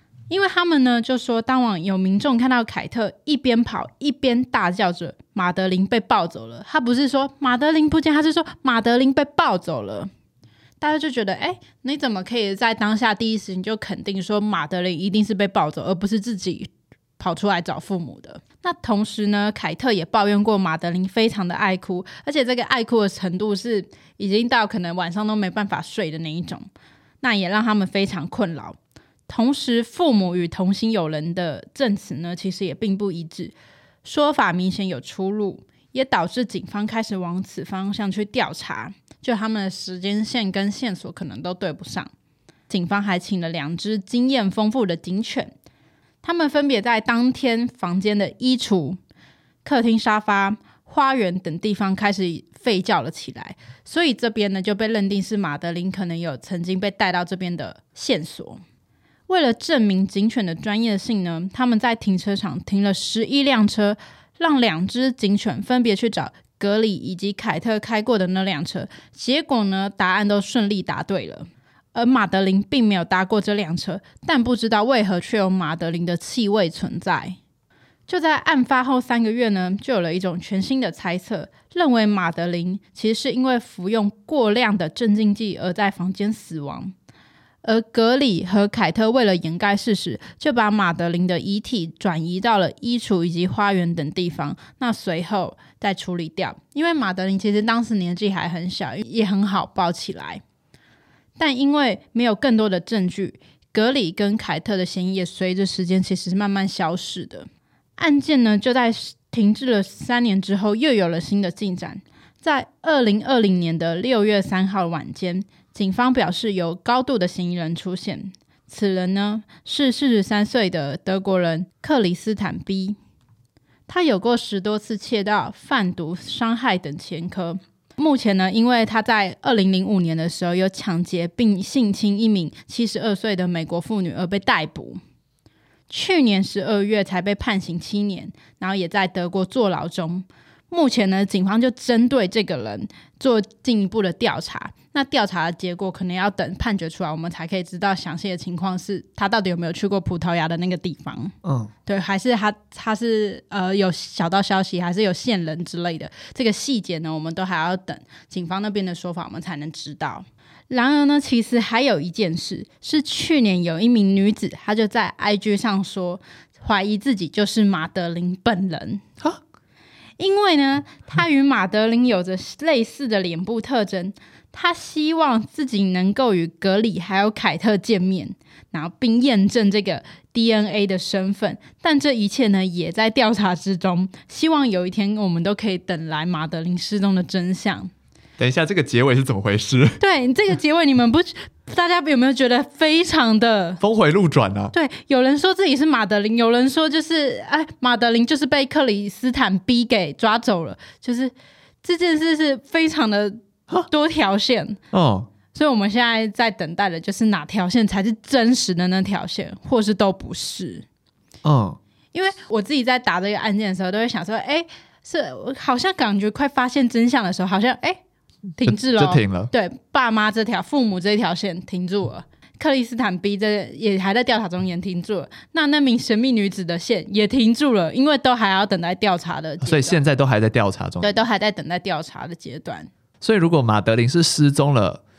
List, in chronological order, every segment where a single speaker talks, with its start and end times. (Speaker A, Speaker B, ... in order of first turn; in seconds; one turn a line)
Speaker A: 0.3-10.1
Speaker A: 10.8-26.7
Speaker A: 27.2-28.8
Speaker A: 29.3-42.1
Speaker A: 42.7-45.5
Speaker A: 46.2-49.0
Speaker A: 49.6-58.6
Speaker A: 59.3-77.4
Speaker A: 78.1-86.9
Speaker A: 87.6-100.4
Speaker A: 101.4-123.0
Speaker A: 123.9-135.0
Speaker A: 135.9-151.3
Speaker B: 151.4-151.7
Speaker A: 151.8-169.0
Speaker A: 170.2-187.9
Speaker B: 188.4-190.0
Speaker A: 190.0-193.8
Speaker B: 193.8-194.7
Speaker A: 194.7-201.3
Speaker A: 201.8-204.8
Speaker B: 204.9-205.3
Speaker A: 205.5-210.8
Speaker B: 211.4-211.8
Speaker A: 212.1-218.0
Speaker A: 218.6-230.0
Speaker B: 218.6-219.5
Speaker B: 229.6-231.1
Speaker A: 231.0-232.9
Speaker B: 233.2-235.0